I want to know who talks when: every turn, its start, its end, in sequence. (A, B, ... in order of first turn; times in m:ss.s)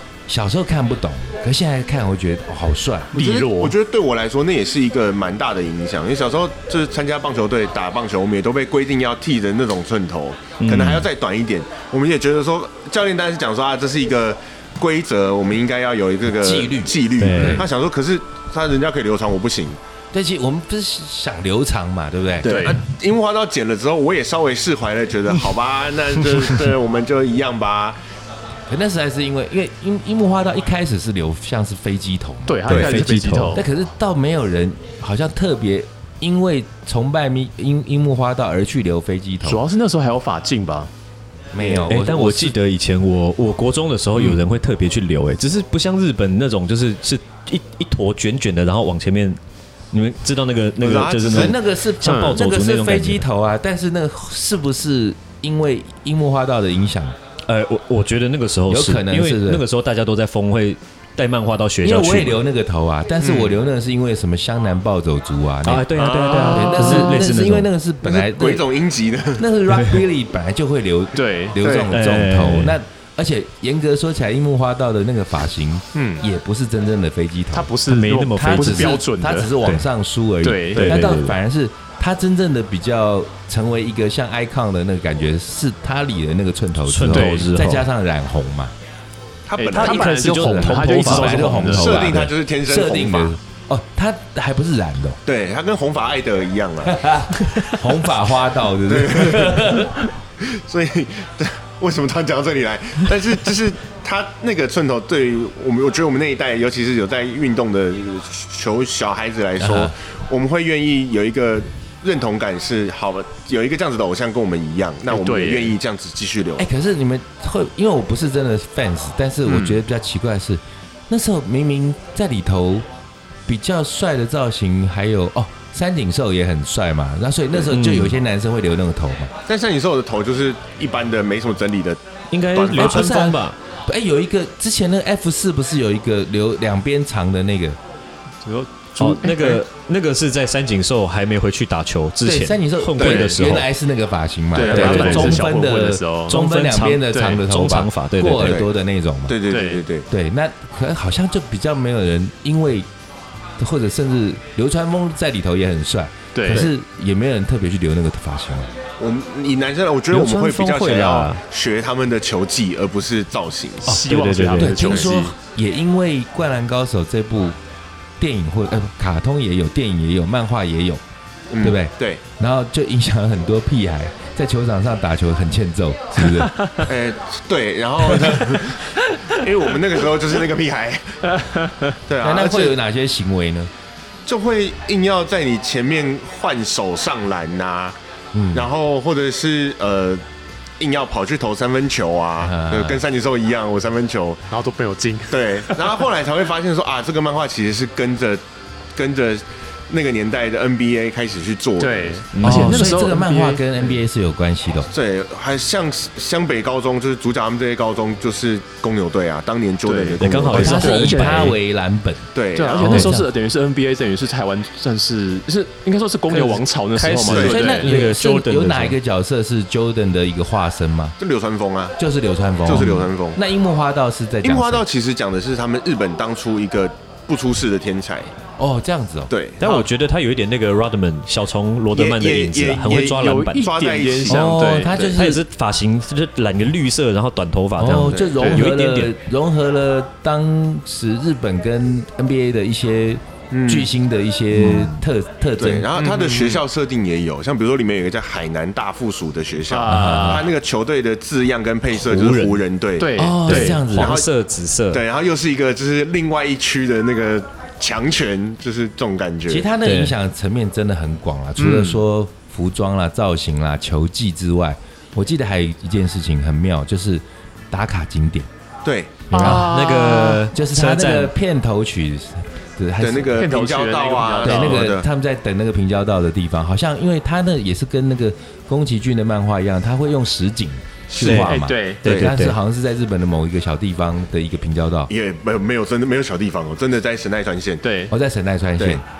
0:00.3-0:03.1 A
0:03.1-0:03.7 B
0:03.1-0:19.8 C
0:10.6-0:11.1 D
0:16.4-0:17.6 A
0:17.2-0:17.6 D
0:20.1-0:22.7 A
0:22.4-0:28.0 C
0:22.4-0:22.8 B
0:28.7-0:39.6 A
0:32.5-0:33.7 B
0:32.7-0:33.6 D
0:39.4-0:40.9 B
0:41.5-0:42.5 A
0:41.6-0:41.9 B
0:41.9-0:49.4 D
0:49.9-0:53.2 D
0:50.8-0:51.5 C
0:51.3-0:57.1 A
0:52.0-0:52.4 B
0:57.5-1:02.4 D
0:58.7-0:59.6 A
1:01.8-1:05.8 A
1:03.2-1:03.5 B
1:05.6-1:07.7 D
1:06.0-1:07.0 B
1:06.0-1:07.1 C
1:06.5-1:08.6 A
1:08.0-1:09.4 C
1:09.4-1:17.7 A
1:09.7-1:10.0 D
1:11.1-1:11.6 B
1:11.6-1:11.9 C
1:11.9-1:12.8 D
1:15.9-1:16.2 B
1:17.5-1:19.6 B
1:17.8-1:19.0 D
1:18.4-1:28.7 A
1:20.4-1:21.1 B
1:20.7-1:21.4 D
1:26.8-1:27.9 D
1:27.1-1:27.5 B
1:29.5-1:30.2 C
1:29.6-1:32.0 B
1:29.7-1:32.2 D
1:30.3-1:35.2 A
1:31.7-1:33.4 C
1:35.2-1:37.1 C
1:36.8-1:40.0 A
1:38.8-1:39.8 C
1:40.4-1:56.7 C
1:49.6-1:49.9 A
1:55.1-1:55.8 B
1:56.6-2:02.8 A
1:59.4-1:59.8 B
2:03.4-2:09.3 A
2:07.7-2:08.2 D
2:09.5-2:13.1 C
2:12.3-2:13.6 D
2:12.7-2:17.8 A
2:18.4-2:19.6 B
2:19.0-2:23.7 D
2:22.2-2:29.4 A
2:23.0-2:23.3 B
2:24.5-2:26.4 B
2:24.6-2:25.5 D
2:26.3-2:28.6 D
2:27.1-2:27.4 B
2:28.4-2:28.7 C
2:29.3-2:30.1 C
2:29.5-2:29.8 B
2:30.1-2:32.9 A
2:33.6-2:38.7 A
2:36.3-2:36.7 B
2:39.0-2:44.0 C
2:40.1-2:41.4 D
2:43.8-2:45.3 B
2:44.0-2:44.8 D
2:44.5-2:47.6 A
2:44.8-2:45.1 C
2:48.2-2:51.0 A
2:51.5-2:52.2 C
2:51.6-2:56.6 A
2:56.4-2:56.7 B
2:56.8-3:01.2 C
3:01.3-3:02.0 B
3:02.1-3:02.8 C
3:02.2-3:03.7 A
3:04.3-3:07.9 C
3:08.3-3:08.7 A
3:08.5-3:10.2 C
3:10.8-3:14.4 C
3:12.4-3:13.0 A
3:14.5-3:16.0 B
3:15.3-3:18.4 C
3:19.0-3:22.2 C
3:21.8-3:24.0 B
3:22.3-3:23.0 D
3:22.4-3:24.9 A
3:24.9-3:30.9 C
3:29.8-3:31.5 B
3:30.2-3:31.6 D
3:30.5-3:33.3 A
3:32.3-3:33.1 C
3:32.5-3:38.0 B
3:36.3-3:39.0 D
3:37.2-3:37.6 C
3:37.4-3:41.1 A
3:41.2-3:41.9 C
3:42.0-3:44.8 A
3:42.6-3:43.4 C
3:44.4-3:48.3 C
3:48.6-3:49.3 A
3:49.3-3:49.9 C
3:49.6-3:53.7 D
3:51.9-3:55.1 C
3:53.0-3:55.0 B
3:54.3-3:55.4 A
3:55.0-3:59.1 D
3:57.8-4:05.9 A
3:58.0-3:58.4 C
4:03.5-4:03.9 C
4:04.5-4:05.0 D
4:05.6-4:14.3 C
4:05.9-4:06.6 B
4:09.7-4:10.5 B
4:09.9-4:10.5 A
4:12.0-4:12.6 D
4:13.0-4:13.8 B
4:13.1-4:14.2 A
4:13.5-4:15.0 D
4:14.9-4:19.7 C
4:19.5-4:28.5 A
4:19.8-4:20.1 D
4:21.6-4:22.0 B
4:28.8-4:29.3 C
4:29.3-4:29.7 A
4:29.3-4:30.4 B
4:29.3-4:31.3 D
4:30.5-4:33.4 A
4:33.0-4:35.1 C
4:33.3-4:34.9 B
4:34.4-4:45.1 A
4:41.1-4:41.4 C
4:41.2-4:42.5 D
4:41.3-4:42.0 B
4:42.0-4:42.3 C
4:45.1-4:47.8 C
4:47.8-4:48.1 B
4:48.1-4:49.0 A